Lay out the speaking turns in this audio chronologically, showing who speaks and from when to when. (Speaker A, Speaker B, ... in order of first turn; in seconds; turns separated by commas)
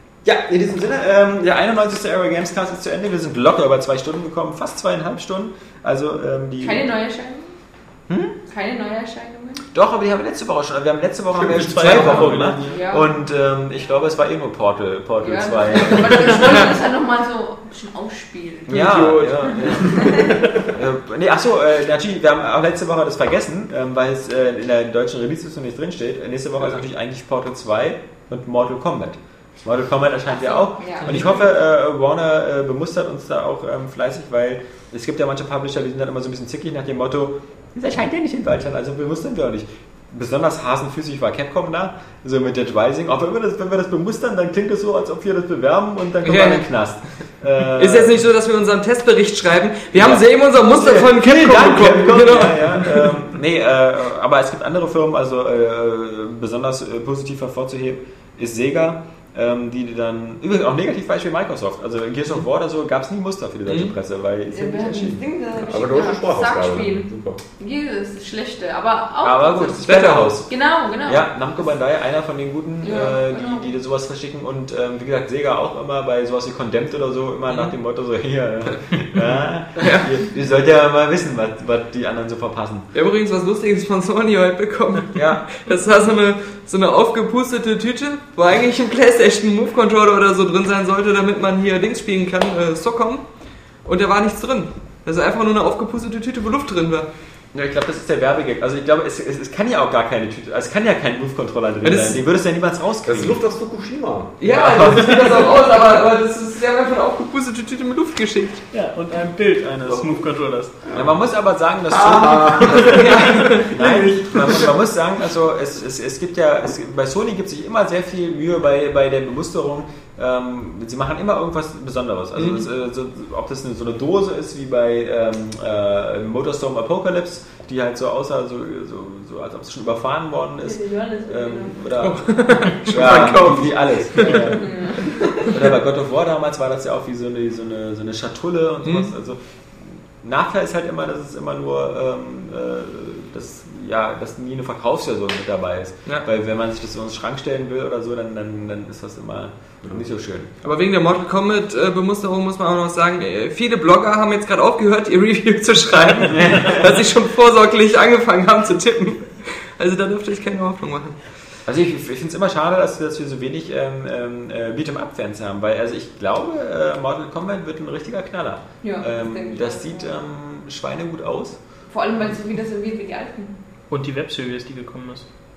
Speaker A: 0.2-6.9, Speaker B: 6.6-7.5, Speaker A: 8.1-8.3, Speaker B: 8.4-9.6, Speaker A: 9.7-16.6, Speaker C: 11.3-12.7, Speaker B: 12.7-13.1, Speaker B: 15.2-20.3, Speaker A: 18.7-48.1, Speaker C: 18.8-19.3, Speaker D: 18.9-19.5, Speaker B: 30.3-31.4, Speaker D: 46.2-46.7, Speaker D: 47.8-53.1, Speaker A: 49.9-65.2, Speaker D: 63.6-63.9, Speaker B: 64.5-71.3, Speaker E: 65.6-67.4, Speaker A: 69.2-82.9, Speaker D: 69.8-70.4, Speaker B: 72.8-73.7, Speaker D: 77.5-77.7, Speaker D: 79.8-80.0, Speaker D: 82.9-93.2, Speaker A: 85.1-85.4, Speaker D: 93.8-97.1, Speaker A: 97.5-103.4, Speaker D: 101.8-102.2, Speaker E: 103.0-104.3, Speaker D: 104.4-108.6, Speaker A: 104.4-105.5, Speaker C: 108.7-110.9, Speaker A: 109.6-110.3, Speaker E: 110.9-111.2, Speaker A: 110.9-150.5, Speaker E: 111.9-113.1, Speaker D: 112.9-113.7, Speaker E: 113.7-114.7, Speaker D: 122.3-122.7, Speaker B: 130.6-131.8, Speaker D: 132.0-134.7, Speaker B: 134.2-135.5, Speaker D: 138.8-139.1, Speaker D: 150.6-161.2, Speaker A: 156.2-157.0, Speaker A: 161.7-171.6, Speaker B: 168.8-170.2, Speaker B: 171.9-173.5, Speaker C: 173.9-175.2